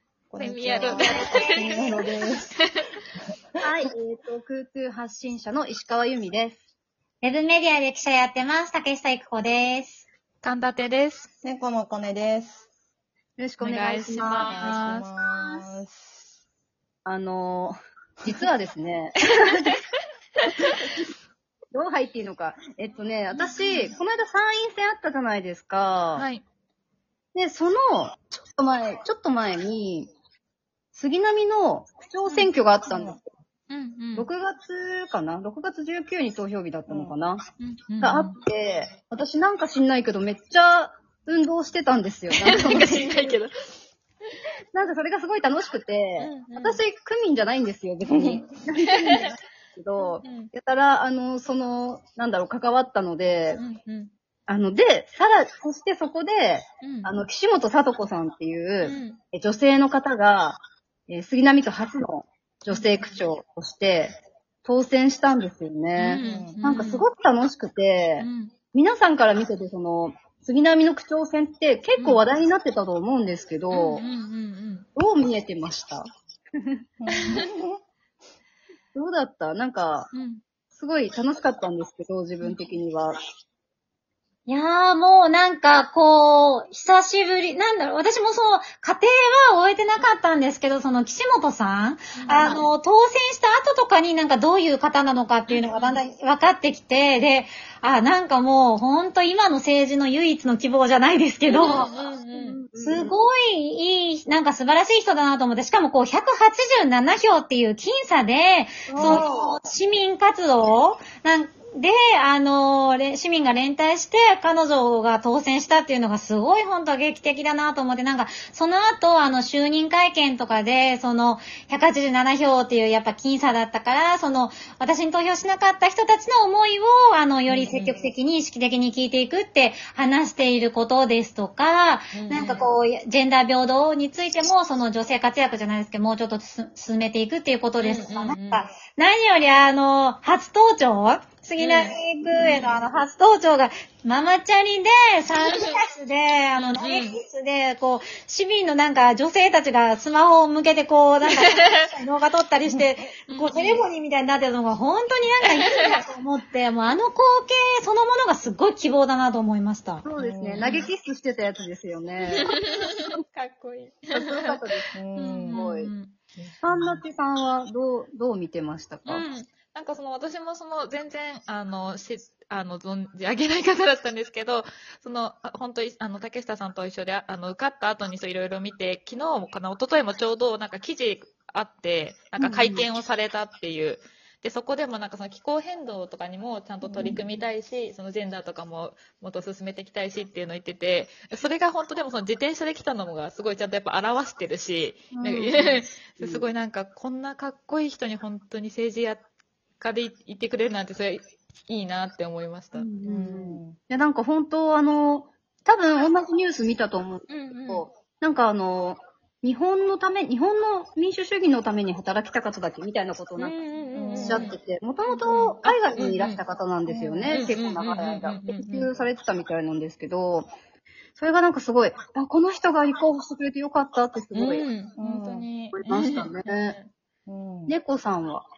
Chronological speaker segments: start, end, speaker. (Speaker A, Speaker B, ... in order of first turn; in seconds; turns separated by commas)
Speaker A: 0.3-2.5, Speaker B: 0.4-2.1, Speaker C: 0.9-1.9, Speaker D: 3.6-6.6, Speaker C: 7.2-10.1, Speaker B: 10.4-11.3, Speaker A: 11.4-12.7, Speaker D: 13.4-14.5, Speaker B: 13.6-15.1, Speaker A: 14.3-16.3, Speaker D: 17.1-19.8, Speaker D: 20.5-21.1, Speaker D: 21.7-26.3, Speaker B: 23.4-24.0, Speaker B: 26.1-26.4, Speaker D: 27.3-30.1, Speaker D: 30.9-33.2, Speaker A: 32.9-33.2, Speaker B: 33.7-34.3, Speaker D: 34.1-37.4, Speaker A: 36.9-37.1, Speaker B: 37.6-38.4, Speaker D: 38.0-43.3, Speaker B: 42.3-43.5, Speaker D: 44.7-53.6, Speaker B: 46.2-46.8, Speaker A: 48.1-48.5, Speaker B: 50.0-50.5, Speaker B: 53.6-54.1, Speaker D: 54.5-74.0, Speaker B: 56.8-57.1, Speaker B: 58.8-59.2, Speaker B: 62.7-63.1, Speaker B: 66.0-67.1, Speaker A: 66.2-66.6, Speaker B: 68.2-68.5, Speaker B: 72.0-72.2, Speaker B: 73.7-74.8, Speaker D: 75.0-76.1, Speaker A: 77.0-77.8, Speaker D: 78.9-80.1, Speaker B: 80.1-80.4, Speaker D: 80.7-83.2, Speaker C: 84.5-101.9, Speaker B: 92.2-92.5, Speaker D: 92.3-92.6, Speaker B: 95.5-96.0, Speaker B: 101.6-102.6, Speaker D: 102.3-103.1, Speaker C: 102.8-160.0, Speaker D: 108.9-109.6, Speaker B: 127.5-128.1, Speaker B: 132.2-132.7, Speaker B: 137.8-138.6, Speaker B: 141.6-142.8, Speaker B: 145.4-145.8, Speaker B: 146.6-147.2, Speaker B: 151.3-151.9, Speaker B: 153.3-153.8, Speaker B: 155.5-156.0, Speaker D: 160.0-162.6, Speaker A: 160.2-160.7, Speaker B: 160.6-160.9, Speaker B: 162.3-164.6, Speaker D: 164.1-164.9, Speaker A: 164.9-165.6, Speaker B: 165.2-166.1, Speaker D: 165.5-165.9, Speaker A: 166.4-167.0, Speaker D: 166.6-169.3, Speaker B: 169.1-199.2, Speaker D: 182.4-182.9, Speaker D: 186.9-187.2, Speaker D: 195.1-196.5, Speaker B: 199.8-202.9, Speaker D: 202.7-213.6, Speaker A: 203.0-203.8, Speaker B: 207.3-207.9, Speaker B: 213.4-214.5, Speaker A: 213.9-214.5, Speaker D: 214.2-220.5, Speaker B: 215.1-216.4, Speaker A: 216.9-217.4, Speaker B: 217.3-218.9, Speaker D: 221.2-224.7, Speaker B: 224.3-226.9, Speaker A: 225.0-225.5, Speaker D: 225.7-226.8, Speaker A: 227.3-227.8, Speaker D: 227.7-228.5